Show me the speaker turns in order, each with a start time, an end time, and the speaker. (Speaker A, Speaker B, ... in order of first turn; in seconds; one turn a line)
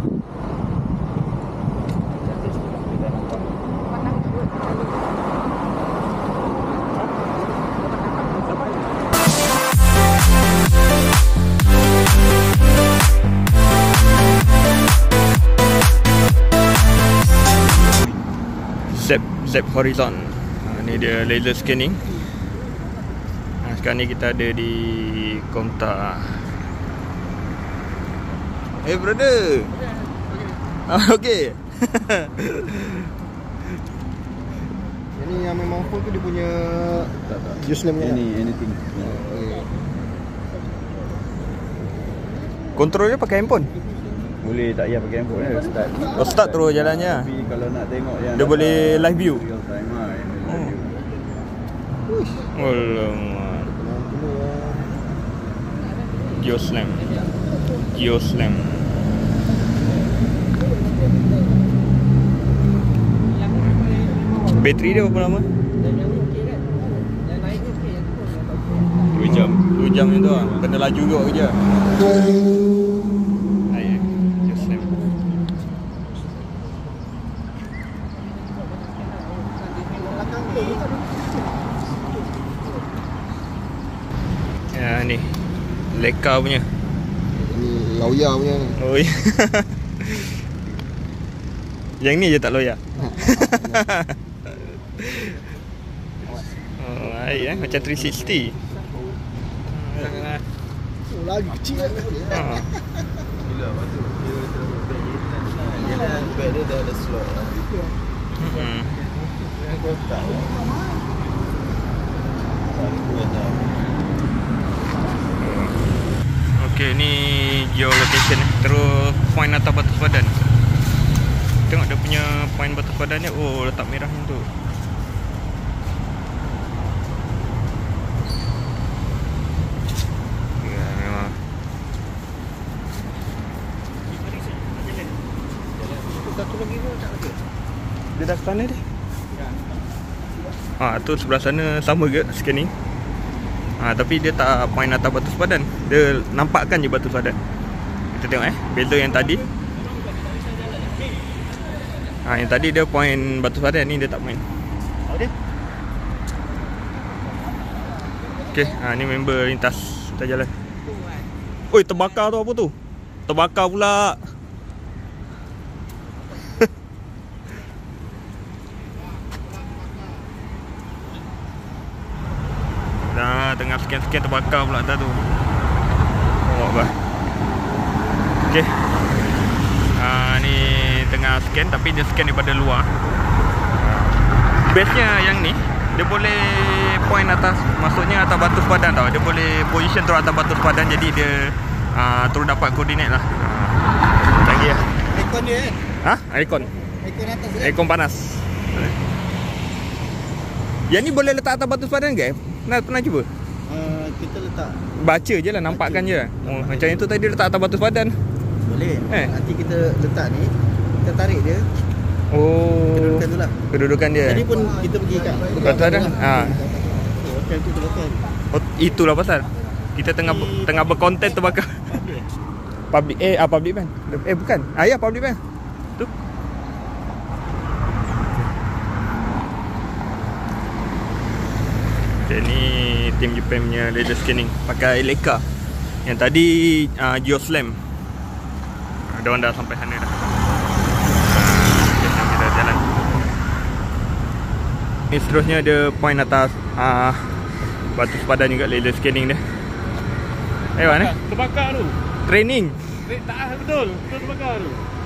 Speaker A: 2.2-3.5
Speaker A: 17.7-18.2
Speaker B: 18.9-22.0
Speaker B: 23.6-26.4
Speaker B: 28.8-29.7
Speaker B: 30.9-33.0
Speaker C: 35.2-37.1
Speaker A: 37.3-39.4
Speaker B: 42.8-43.7
Speaker A: 44.4-51.0
Speaker B: 46.1-47.3
Speaker B: 48.4-49.4
Speaker B: 50.5-50.7
Speaker B: 52.2-53.8
Speaker C: 54.2-54.7
Speaker B: 56.3-57.2
Speaker B: 57.9-58.9
Speaker B: 64.5-65.5
Speaker D: 66.1-66.6
Speaker D: 67.3-68.1
Speaker A: 69.1-69.6
Speaker B: 69.2-71.6
Speaker B: 73.7-74.9
Speaker B: 84.7-85.2
Speaker B: 85.9-86.7
Speaker C: 87.5-88.6
Speaker B: 88.6-90.3
Speaker B: 92.0-94.1
Speaker B: 95.0-95.4
Speaker B: 96.8-98.6
Speaker B: 99.7-100.4
Speaker C: 101.4-101.9
Speaker B: 102.3-102.7
Speaker A: 103.5-107.7
Speaker B: 108.4-109.0
Speaker A: 109.6-110.5
Speaker A: 112.8-113.7
Speaker B: 115.4-115.7
Speaker B: 116.6-120.5
Speaker B: 121.7-124.5
Speaker B: 130.6-131.4
Speaker C: 136.2-137.4
Speaker B: 138.1-138.8
Speaker B: 140.8-142.7
Speaker B: 143.8-147.3
Speaker B: 148.1-149.4
Speaker B: 152.2-154.4
Speaker B: 158.5-160.5
Speaker B: 161.7-162.7
Speaker B: 163.3-164.2
Speaker B: 173.1-175.2
Speaker B: 176.4-176.9
Speaker B: 179.9-182.9
Speaker B: 183.8-194.9
Speaker C: 195.0-195.8
Speaker B: 196.0-196.7
Speaker C: 197.0-197.5
Speaker B: 197.6-198.9
Speaker B: 200.9-203.3
Speaker C: 203.7-204.7
Speaker B: 205.0-208.1
Speaker A: 208.7-209.0
Speaker B: 209.1-209.3
Speaker C: 209.3-210.5
Speaker C: 211.0-211.6
Speaker B: 212.3-214.4
Speaker C: 214.3-216.1
Speaker A: 214.6-216.1
Speaker B: 215.5-216.7
Speaker C: 216.7-218.2
Speaker B: 218.5-221.9
Speaker B: 222.9-225.4
Speaker B: 232.2-235.4
Speaker B: 236.0-237.8
Speaker B: 239.1-240.2
Speaker B: 241.2-242.9
Speaker B: 245.1-247.3
Speaker B: 247.9-249.4
Speaker B: 250.8-251.1
Speaker D: 251.0-251.9
Speaker B: 252.2-252.8
Speaker D: 253.1-254.8